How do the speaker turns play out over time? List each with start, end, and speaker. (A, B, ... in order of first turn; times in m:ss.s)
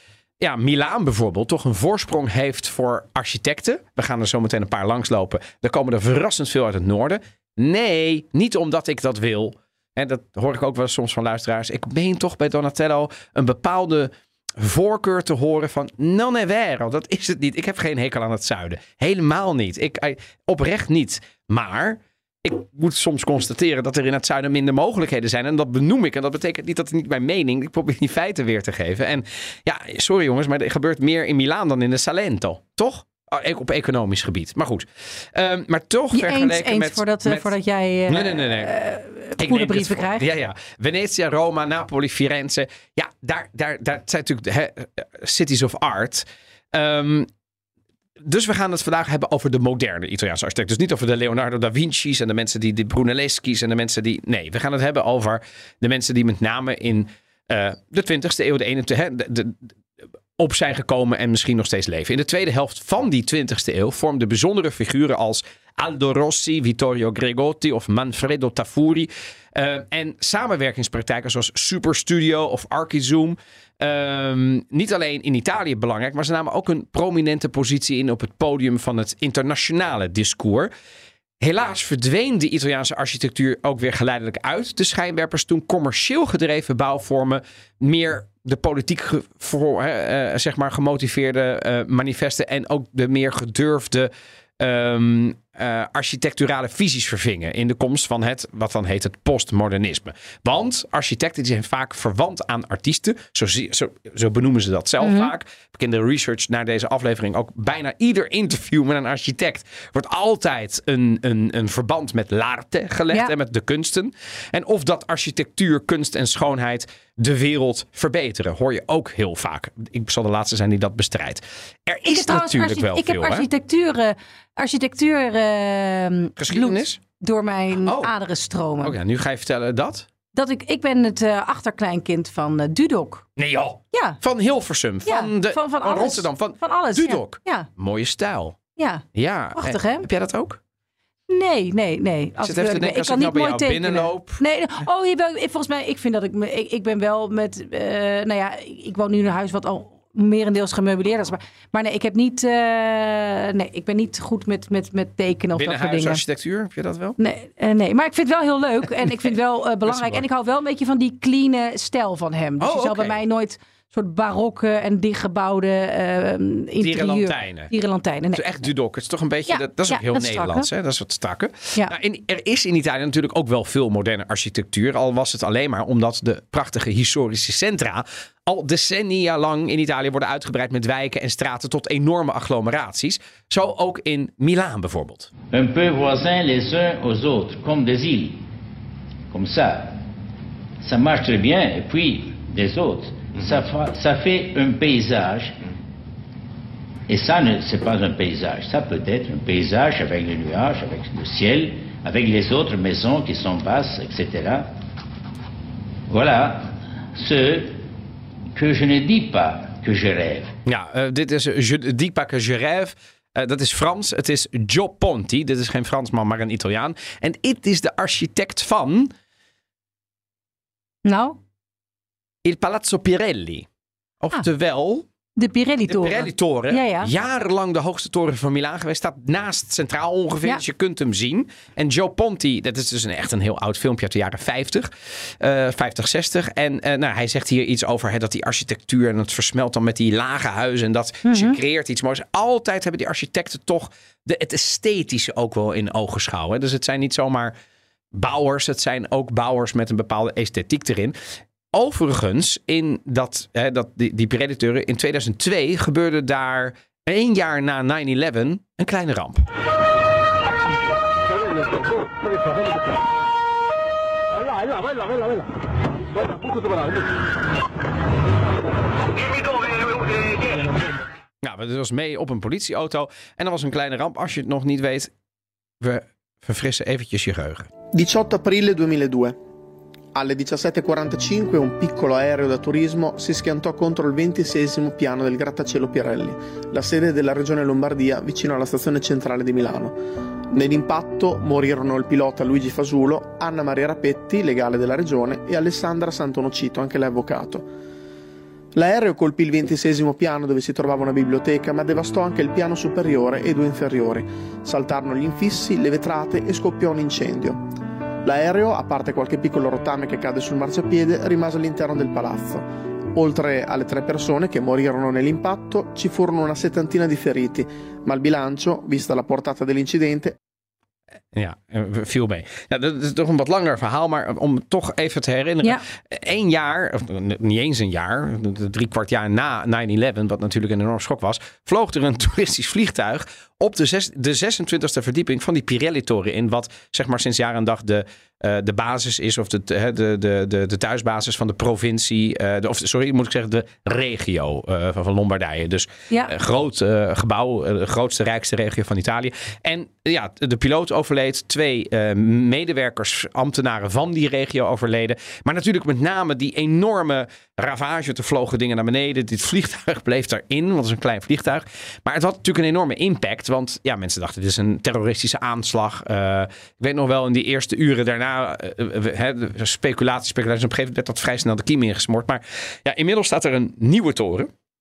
0:00.4-0:37.5 A
0:36.1-0:40.2 B
0:38.1-0:38.7 A
0:39.4-0:47.3 A
0:48.2-0:59.7 A
1:00.4-1:20.7 A
1:21.4-2:03.5 A
1:45.0-1:45.3 B
2:02.1-2:09.0 B
2:06.4-2:07.0 A
2:07.8-2:08.1 A
2:08.8-2:10.1 A
2:10.3-2:13.3 B
2:13.4-2:18.6 A
2:13.9-2:14.2 B
2:15.1-2:17.7 B
2:18.8-2:19.0 B
2:19.1-2:20.6 A
2:19.6-2:20.1 B
2:21.3-2:36.2 B
2:22.4-2:24.4 A
2:35.6-2:37.2 A
2:37.2-2:48.4 B
2:39.8-2:40.2 A
2:42.6-2:43.2 A
2:46.8-2:47.7 A
2:48.3-3:05.3 A
2:49.5-2:50.7 B
3:05.5-3:08.4 C
3:09.3-3:10.0 C
3:10.8-3:15.6 C
3:17.1-3:24.7 C
3:26.1-3:27.8 C
3:28.6-3:30.5 C
3:30.6-3:39.1 A
3:41.0-3:41.4 B
3:42.4-3:43.7 A
3:44.2-3:45.1 A
3:45.4-3:47.1 B
3:45.9-4:07.5 A
4:01.2-4:01.6 B
4:08.1-4:11.2 A
4:11.7-4:19.5 A
4:31.4-4:35.1 A
4:35.8-4:37.7 A
4:37.9-4:39.4 D
4:40.1-4:50.0 D
4:50.5-4:57.6 D
4:58.8-5:07.6 D
5:08.2-5:20.4 D
5:21.3-6:14.5 A